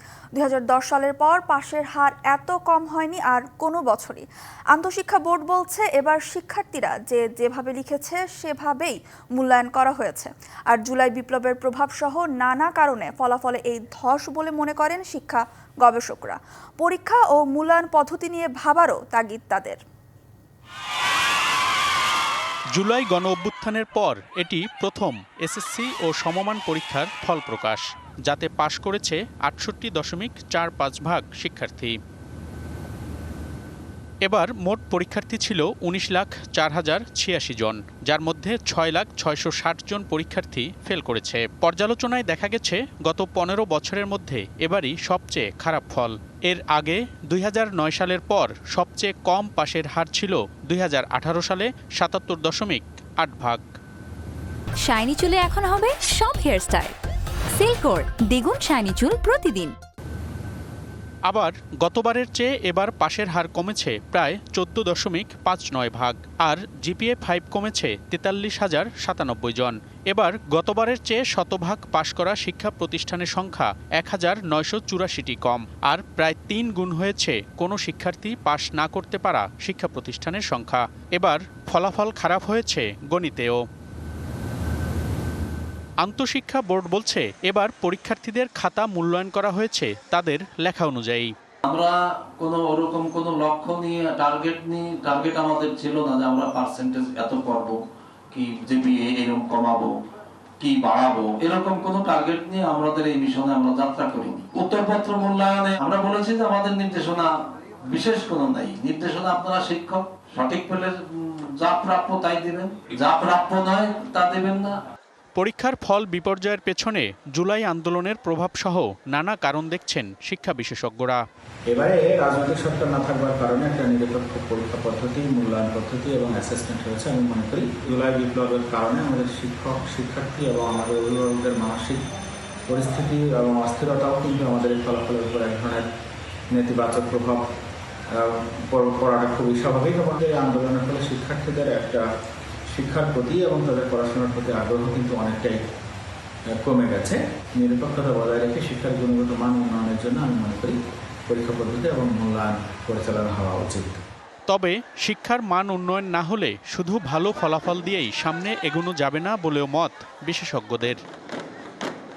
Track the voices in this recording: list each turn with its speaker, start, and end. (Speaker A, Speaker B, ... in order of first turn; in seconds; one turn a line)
Speaker A: 0.4-19.8
Speaker B: 22.8-32.0
Speaker B: 34.2-53.6
Speaker C: 54.8-57.0
Speaker C: 57.5-59.8
Speaker B: 61.3-83.6
Speaker B: 86.0-91.3
Speaker D: 91.7-97.8
Speaker D: 98.3-99.9
Speaker D: 100.6-107.3
Speaker D: 107.9-114.7
Speaker B: 115.3-121.2
Speaker E: 121.7-132.0
Speaker E: 132.7-135.9
Speaker E: 136.5-137.4
Speaker E: 138.1-142.0
Speaker E: 142.7-145.6
Speaker E: 146.5-150.8
Speaker E: 151.3-154.0
Speaker B: 154.5-161.0